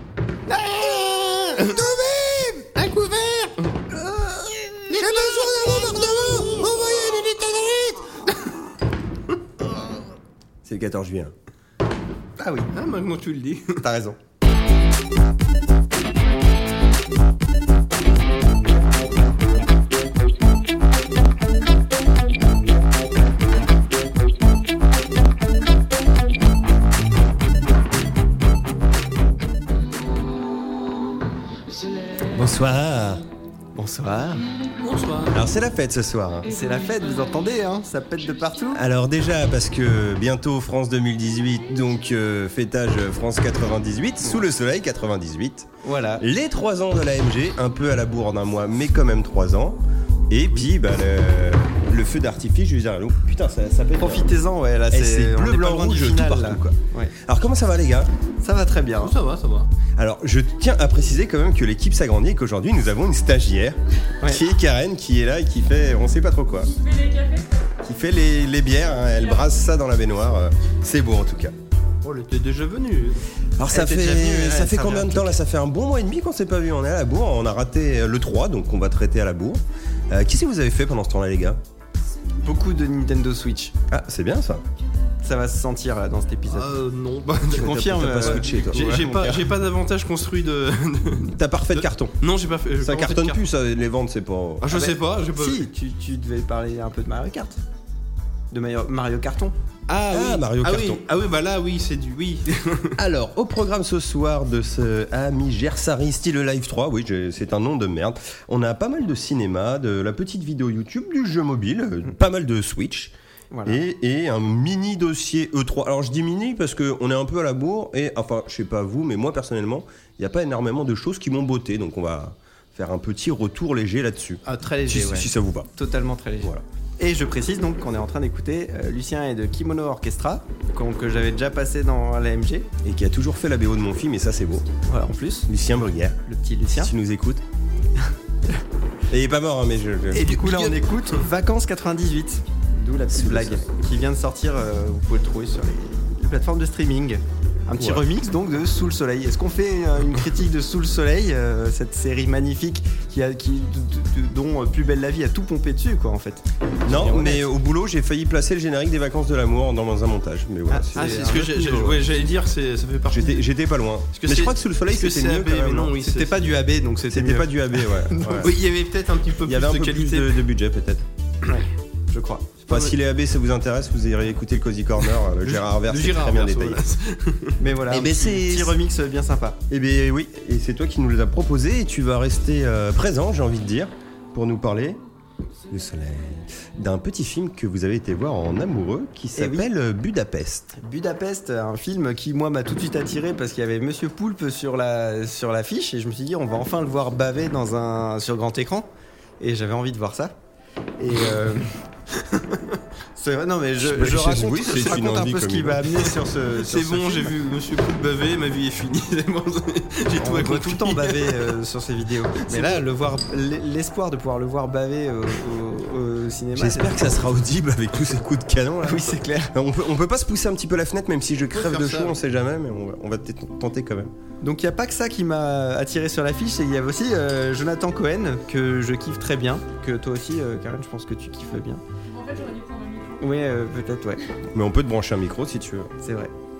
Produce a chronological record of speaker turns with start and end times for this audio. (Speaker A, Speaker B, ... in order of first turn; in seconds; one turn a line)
Speaker A: 0.5-2.0
Speaker B: 2.2-2.6
Speaker A: 2.6-3.8
Speaker A: 4.9-7.9
Speaker C: 5.0-7.1
Speaker B: 5.1-5.7
Speaker C: 10.7-11.3
Speaker B: 12.4-12.7
Speaker A: 12.7-13.8
Speaker C: 13.8-14.2
Speaker C: 32.3-33.2
Speaker B: 33.8-34.4
Speaker A: 34.8-35.4
Speaker C: 35.3-36.5
Speaker B: 36.5-38.8
Speaker C: 38.7-45.7
Speaker B: 45.8-46.2
Speaker C: 46.2-54.3
Speaker B: 54.0-57.1
Speaker C: 54.9-58.1
Speaker B: 58.4-59.2
Speaker A: 59.0-59.7
Speaker C: 60.0-66.7
Speaker D: 66.6-67.8
Speaker C: 67.8-71.5
Speaker D: 69.0-69.5
Speaker A: 72.0-73.2
Speaker C: 73.6-81.6
Speaker B: 73.7-75.4
Speaker B: 82.4-83.8
Speaker C: 83.9-84.7
Speaker B: 85.2-86.7
Speaker A: 86.5-93.4
Speaker B: 87.5-89.5
Speaker C: 87.5-88.9
Speaker C: 91.3-92.2
Speaker C: 92.8-94.7
Speaker A: 94.6-95.7
Speaker B: 94.7-97.6
Speaker B: 98.5-99.5
Speaker A: 99.9-103.0
Speaker C: 100.1-101.0
Speaker C: 103.0-113.1
Speaker B: 113.5-113.8
Speaker C: 113.7-125.7
Speaker B: 124.5-132.7
Speaker C: 132.8-134.7
Speaker B: 134.8-135.5
Speaker C: 135.5-136.2
Speaker B: 136.2-136.9
Speaker C: 136.7-137.4
Speaker C: 139.1-140.8
Speaker B: 140.1-157.5
Speaker C: 143.1-143.6
Speaker C: 147.8-148.0
Speaker C: 156.8-161.2
Speaker B: 160.7-162.0
Speaker A: 160.9-163.5
Speaker C: 163.1-166.0
Speaker A: 164.1-166.6
Speaker B: 166.0-168.5
Speaker C: 167.1-168.6
Speaker A: 168.4-170.4
Speaker C: 169.4-171.1
Speaker B: 171.4-172.5
Speaker C: 172.7-176.8
Speaker A: 172.7-173.0
Speaker A: 175.4-177.6
Speaker B: 177.6-179.6
Speaker C: 177.9-178.8
Speaker C: 179.7-185.0
Speaker C: 185.7-190.8
Speaker B: 189.4-189.7
Speaker B: 190.8-198.9
Speaker B: 199.4-200.3
Speaker B: 201.0-201.8
Speaker A: 202.2-202.6
Speaker B: 203.2-207.3
Speaker C: 203.8-206.1
Speaker A: 206.6-211.5
Speaker B: 210.2-217.2
Speaker A: 212.5-212.8
Speaker C: 216.6-224.1
Speaker B: 218.8-219.5
Speaker A: 221.5-222.1
Speaker B: 224.4-231.8
Speaker D: 232.1-233.2
Speaker B: 233.2-234.2
Speaker C: 234.5-235.9
Speaker B: 236.0-236.3